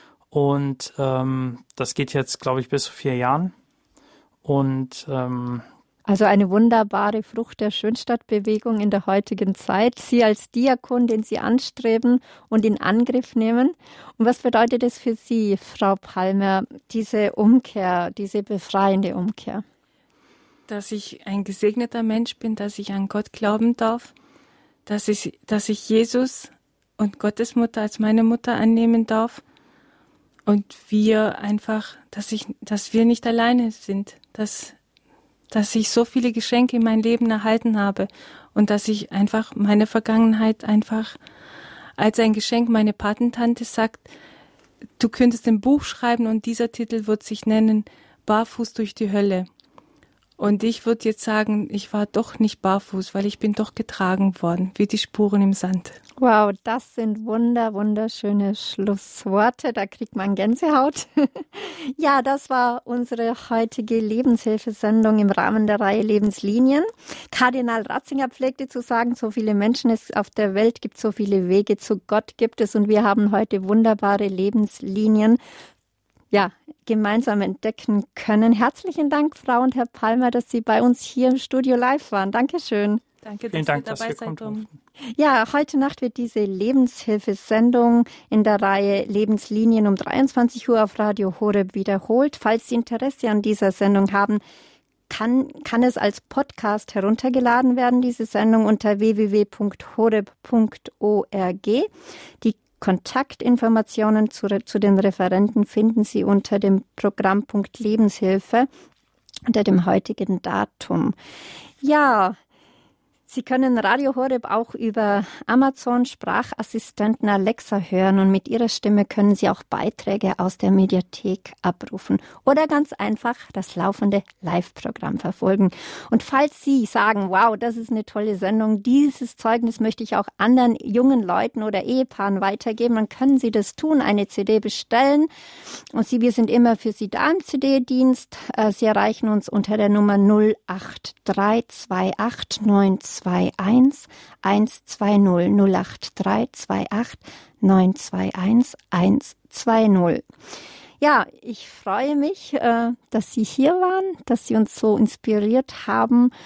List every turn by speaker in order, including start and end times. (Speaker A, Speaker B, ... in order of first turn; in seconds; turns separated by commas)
Speaker A: 0.3-3.5, Speaker A: 4.4-5.7, Speaker B: 6.0-19.6, Speaker C: 20.7-24.1, Speaker C: 24.9-29.4, Speaker C: 30.4-34.8, Speaker C: 35.5-41.1, Speaker C: 42.0-44.1, Speaker C: 45.0-49.5, Speaker C: 50.4-56.0, Speaker B: 56.2-75.4, Speaker B: 76.3-83.0, Speaker C: 83.2-84.7, Speaker A: 83.5-84.7, Speaker B: 85.2-94.4, Speaker B: 95.1-101.9, Speaker B: 102.4-108.7, Speaker B: 109.5-111.2, Speaker B: 111.8-112.4, Speaker B: 113.3-135.3, Speaker B: 135.9-150.2, Speaker B: 151.0-156.3